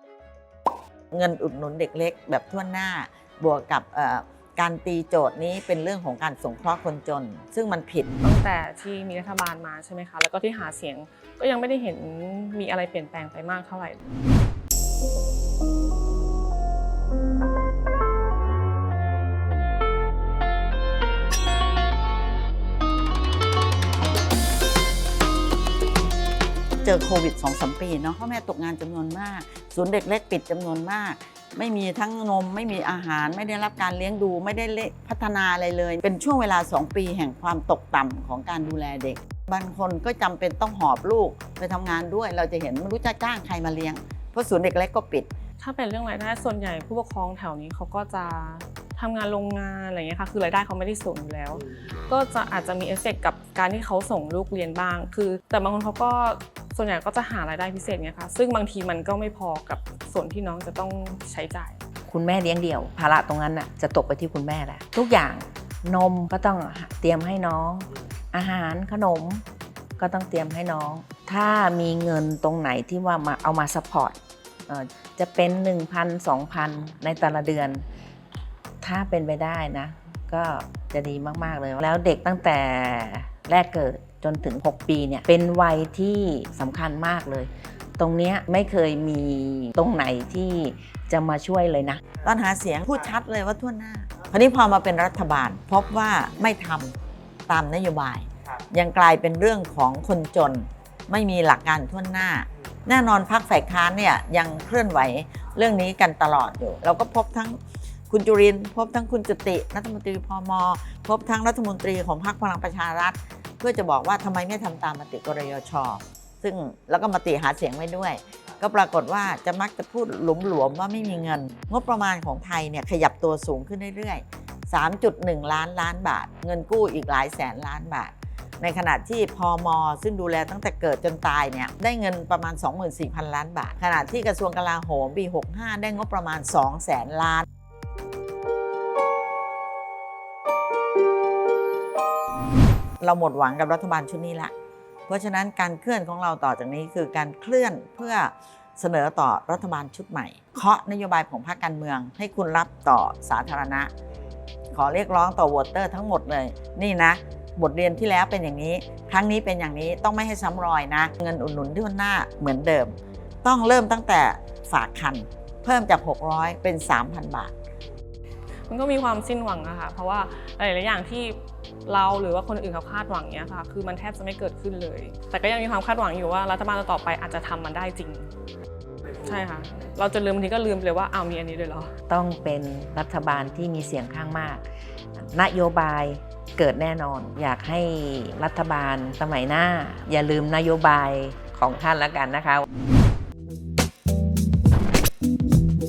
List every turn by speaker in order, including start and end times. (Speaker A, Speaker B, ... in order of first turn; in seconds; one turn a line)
Speaker A: 1.1-8.1
Speaker B: 8.2-14.0
Speaker A: 26.8-45.3
Speaker B: 45.6-61.8
Speaker C: 62.1-69.4
Speaker C: 70.0-74.2
Speaker C: 74.7-77.8
Speaker C: 78.8-92.0
Speaker A: 92.2-96.9
Speaker A: 97.5-137.4
Speaker A: 143.0-144.5
Speaker A: 145.1-153.9
Speaker A: 154.7-167.5
Speaker B: 168.7-178.3
Speaker B: 179.2-181.9
Speaker C: 182.1-184.7
Speaker C: 185.2-192.7